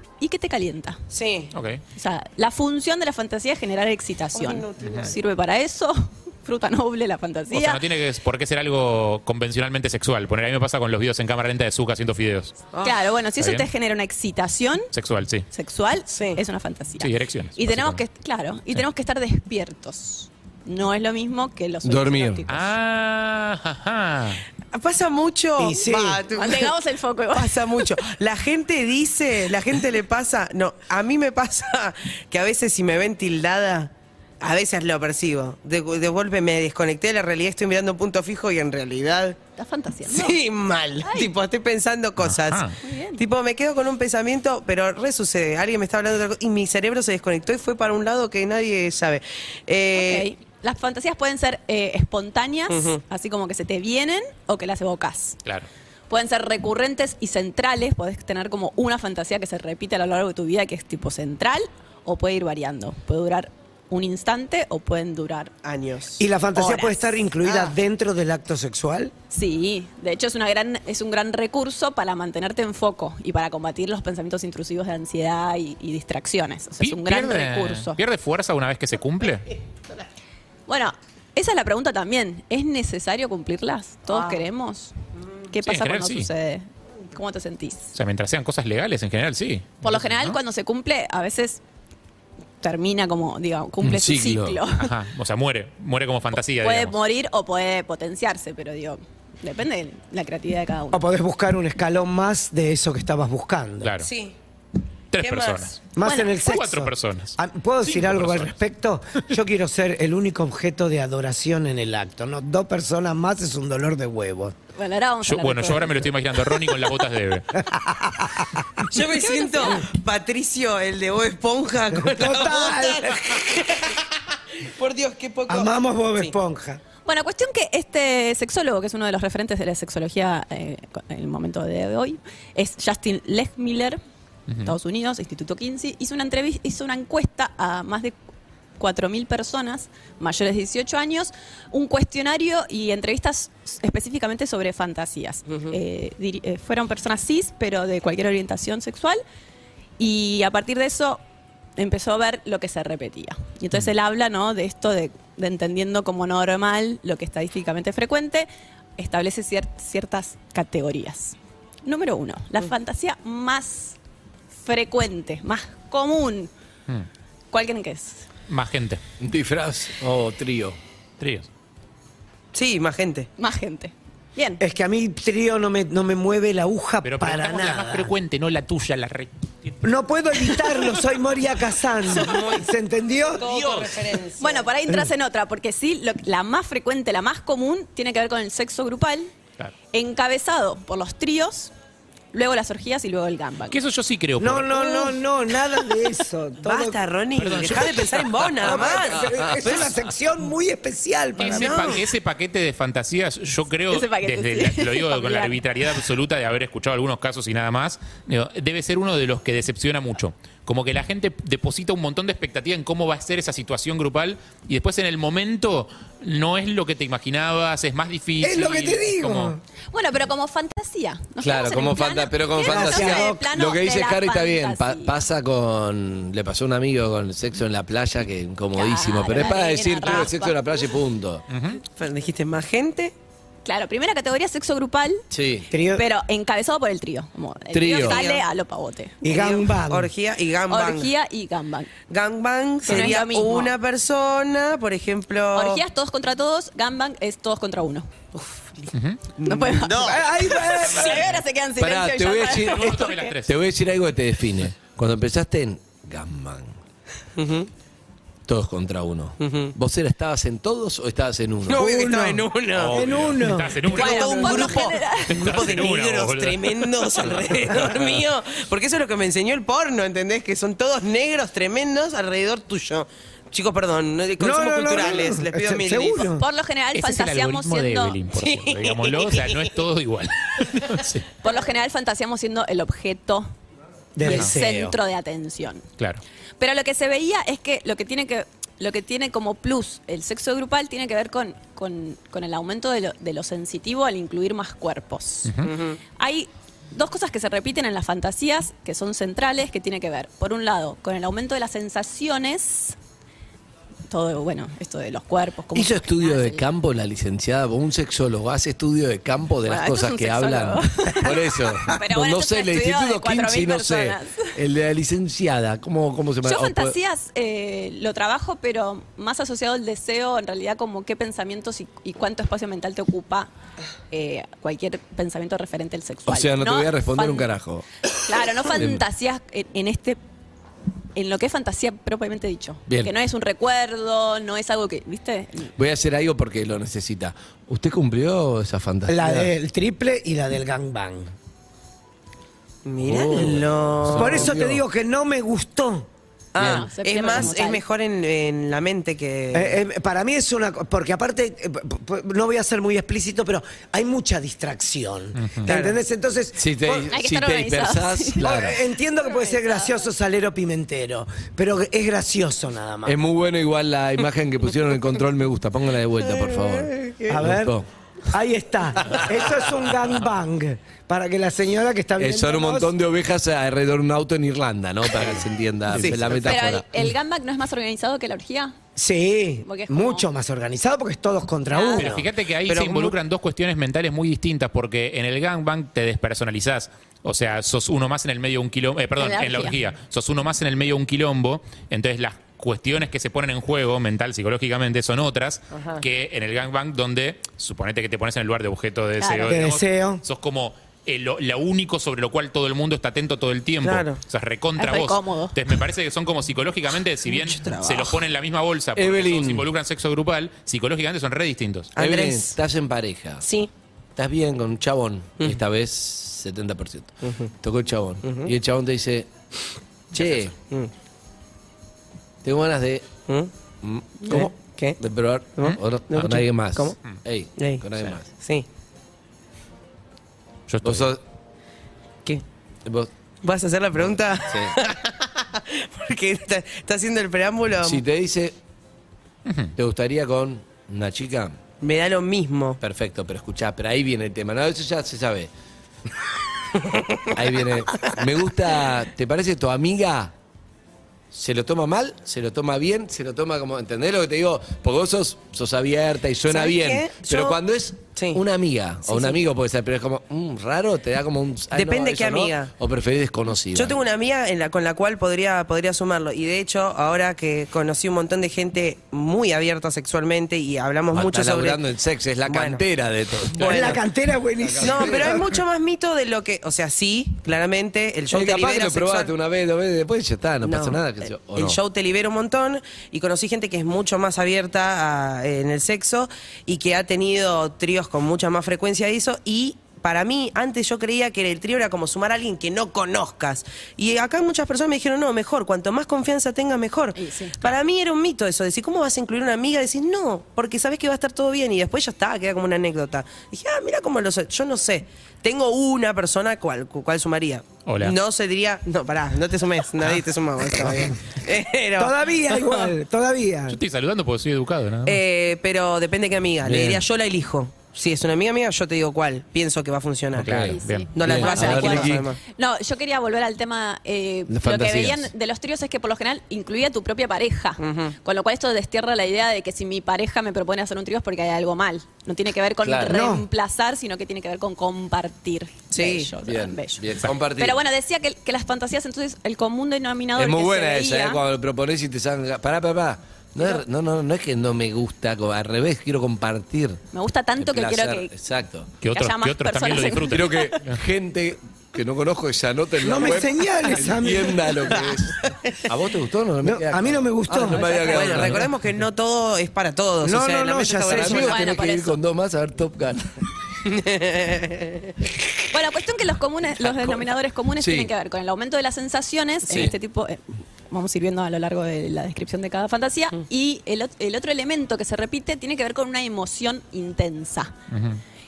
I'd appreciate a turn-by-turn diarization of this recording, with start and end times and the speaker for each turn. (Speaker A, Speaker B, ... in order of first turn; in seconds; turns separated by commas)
Speaker A: 0.2-1.0, Speaker B: 1.1-1.5, Speaker C: 1.5-1.8, Speaker A: 1.9-7.8, Speaker B: 4.3-5.2, Speaker C: 4.8-5.1, Speaker C: 7.5-12.6, Speaker B: 12.7-13.0, Speaker A: 12.8-14.9, Speaker C: 13.4-13.7, Speaker C: 14.9-15.5, Speaker A: 15.5-22.7, Speaker B: 16.1-16.4, Speaker C: 17.0-18.0, Speaker D: 21.8-22.4, Speaker C: 22.5-24.4, Speaker B: 24.7-26.8, Speaker E: 25.6-26.2, Speaker A: 26.3-27.9, Speaker B: 27.3-39.4, Speaker A: 39.6-40.4, Speaker B: 40.1-50.3, Speaker A: 41.0-41.3, Speaker C: 42.2-42.8, Speaker A: 42.8-43.2, Speaker A: 49.9-55.4, Speaker B: 52.7-53.0, Speaker A: 56.1-65.5, Speaker B: 65.6-66.2, Speaker E: 66.2-69.1, Speaker A: 66.5-67.2, Speaker B: 67.4-67.8, Speaker A: 69.3-78.0, Speaker C: 76.8-79.5, Speaker A: 80.7-84.9, Speaker B: 84.1-84.4, Speaker A: 85.5-87.9, Speaker C: 85.7-86.3, Speaker C: 87.9-90.4, Speaker A: 89.8-91.6, Speaker A: 92.6-94.9, Speaker D: 93.8-94.6, Speaker C: 94.8-97.0, Speaker A: 96.6-101.0, Speaker E: 100.9-103.9, Speaker C: 103.8-104.1, Speaker B: 104.0-104.3, Speaker C: 105.1-108.5, Speaker B: 105.2-105.7, Speaker E: 105.9-114.6, Speaker A: 106.0-106.3, Speaker A: 114.8-116.1, Speaker C: 115.2-117.6, Speaker E: 117.6-118.9, Speaker B: 118.8-126.3, Speaker A: 119.2-119.9, Speaker E: 121.9-123.6, Speaker E: 125.5-126.8, Speaker A: 127.1-134.0, Speaker C: 134.5-134.8, Speaker A: 134.6-138.2, Speaker A: 138.8-149.2, Speaker A: 150.0-151.2, Speaker A: 151.8-164.0, Speaker A: 164.6-166.5, Speaker A: 167.5-168.2, Speaker C: 168.5-169.0, Speaker D: 169.2-170.8, Speaker C: 171.2-171.5, Speaker B: 172.5-173.3, Speaker A: 173.4-174.6, Speaker E: 174.6-178.1, Speaker C: 177.0-179.8, Speaker E: 179.8-183.5, Speaker B: 182.1-182.7, Speaker B: 183.3-184.7, Speaker C: 183.5-183.9, Speaker A: 184.4-189.3, Speaker A: 189.9-191.7, Speaker A: 192.3-193.8, Speaker C: 193.7-194.9, Speaker E: 194.4-197.0, Speaker B: 196.6-199.9, Speaker C: 197.4-198.8, Speaker E: 198.6-202.0, Speaker D: 199.2-199.7, Speaker C: 201.4-219.6, Speaker B: 201.4-202.0, Speaker A: 203.9-205.6, Speaker E: 218.4-219.6, Speaker A: 219.9-225.1, Speaker D: 221.4-231.4, Speaker E: 222.6-223.5, Speaker A: 228.7-230.6, Speaker B: 230.0-230.3, Speaker C: 231.5-231.8, Speaker B: 231.9-233.1, Speaker A: 233.6-235.2, Speaker D: 235.3-235.7, Speaker E: 235.7-236.1, Speaker A: 235.8-239.3, Speaker D: 237.7-238.2, Speaker B: 237.9-238.4, Speaker E: 239.2-240.1, Speaker B: 239.2-241.1, Speaker A: 240.7-241.9, Speaker B: 242.1-245.8, Speaker A: 242.8-243.7, Speaker A: 245.5-248.1, Speaker B: 248.3-251.1, Speaker C: 248.9-249.2, Speaker A: 249.4-253.3, Speaker E: 250.0-251.3, Speaker D: 251.8-256.7, Speaker C: 252.5-253.6, Speaker B: 257.4-257.7, Speaker D: 258.5-261.9, Speaker B: 259.4-259.7, Speaker B: 261.7-263.0, Speaker E: 261.7-264.7, Speaker C: 262.8-268.1, Speaker B: 263.9-276.3, Speaker A: 263.9-265.4, Speaker E: 274.4-276.4, Speaker A: 276.4-278.2, Speaker C: 276.9-281.3, Speaker B: 278.3-279.7, Speaker A: 281.4-283.5, Speaker E: 284.1-285.0, Speaker A: 284.2-285.9, Speaker A: 286.6-295.5, Speaker C: 295.4-295.7, Speaker B: 295.6-296.0, Speaker A: 296.2-303.0, Speaker A: 304.1-306.6, Speaker D: 305.7-317.0, Speaker A: 309.6-314.6, Speaker A: 316.4-323.5, Speaker A: 324.1-327.5, Speaker D: 326.2-327.9, Speaker A: 328.2-330.2, Speaker D: 328.5-329.0, Speaker A: 331.1-335.7, Speaker D: 332.9-333.1, Speaker D: 335.8-339.5, Speaker E: 339.1-341.3, Speaker B: 342.9-344.6, Speaker D: 343.0-344.8, Speaker E: 344.1-346.1, Speaker B: 346.5-349.8, Speaker D: 346.6-346.9, Speaker A: 346.6-347.8, Speaker E: 349.5-357.1, Speaker C: 355.4-355.7, Speaker B: 355.6-356.0, Speaker D: 356.6-358.8, Speaker A: 357.1-358.6, Speaker E: 358.4-363.2, Speaker D: 363.1-367.9, Speaker B: 366.2-367.4, Speaker E: 367.3-367.8, Speaker E: 368.3-372.9, Speaker D: 372.2-377.1, Speaker B: 376.0-376.3, Speaker A: 376.4-378.8, Speaker E: 379.0-382.3, Speaker A: 379.6-380.3, Speaker A: 381.7-382.1, Speaker C: 382.0-411.9, Speaker B: 382.6-383.1, Speaker A: 389.2-389.8, Speaker B: 395.8-396.0, Speaker A: 399.2-399.6, Speaker E: 399.5-400.2, Speaker B: 403.8-404.1, Speaker A: 404.8-405.6, Speaker B: 407.3-408.2, Speaker D: 409.0-409.6, Speaker B: 412.0-412.5, Speaker D: 412.0-413.4, Speaker B: 413.4-413.7, Speaker D: 414.1-419.3, Speaker B: 417.2-417.5, Speaker B: 418.2-418.5, Speaker D: 420.1-420.5, Speaker B: 420.1-420.9, Speaker D: 422.4-423.1, Speaker D: 423.8-428.3, Speaker B: 424.2-425.0, Speaker B: 425.6-428.6, Speaker C: 430.7-431.1, Speaker D: 430.8-431.2, Speaker B: 433.4-438.0, Speaker D: 434.5-434.7, Speaker D: 437.8-438.6, Speaker C: 439.4-439.7, Speaker D: 439.8-441.6, Speaker B: 441.8-442.8, Speaker D: 442.8-445.5, Speaker B: 446.9-448.2, Speaker D: 447.4-450.3, Speaker D: 451.3-463.9, Speaker B: 456.5-457.6, Speaker B: 458.1-458.4, Speaker A: 459.1-459.4, Speaker B: 461.7-462.7, Speaker B: 463.7-471.8, Speaker D: 471.1-473.9, Speaker B: 472.4-472.9, Speaker B: 473.6-474.0, Speaker C: 473.6-473.9, Speaker E: 473.6-475.5, Speaker D: 474.6-475.4, Speaker B: 474.8-479.3, Speaker D: 478.3-481.8, Speaker B: 480.6-512.9, Speaker A: 497.1-497.7, Speaker C: 507.9-508.2, Speaker E: 510.8-511.2, Speaker E: 512.0-513.8, Speaker C: 513.7-515.2, Speaker B: 515.0-522.4, Speaker D: 516.6-517.0, Speaker C: 520.4-521.1, Speaker D: 520.5-522.3, Speaker A: 520.7-541.4, Speaker D: 524.5-525.3, Speaker B: 527.8-528.1, Speaker D: 532.8-533.2, Speaker E: 533.1-533.5, Speaker B: 535.9-536.3, Speaker D: 536.4-537.8, Speaker D: 540.4-547.0, Speaker A: 547.1-548.3, Speaker D: 547.6-548.9, Speaker A: 549.0-550.6, Speaker C: 549.0-551.0, Speaker D: 550.3-558.7, Speaker E: 553.0-554.9, Speaker E: 556.6-557.9, Speaker B: 557.5-561.6, Speaker A: 557.7-558.6, Speaker E: 560.2-561.5, Speaker D: 561.0-563.3, Speaker A: 561.4-562.2, Speaker B: 563.9-565.1, Speaker A: 565.7-577.7, Speaker D: 567.8-568.1, Speaker D: 569.7-569.9, Speaker C: 577.9-578.2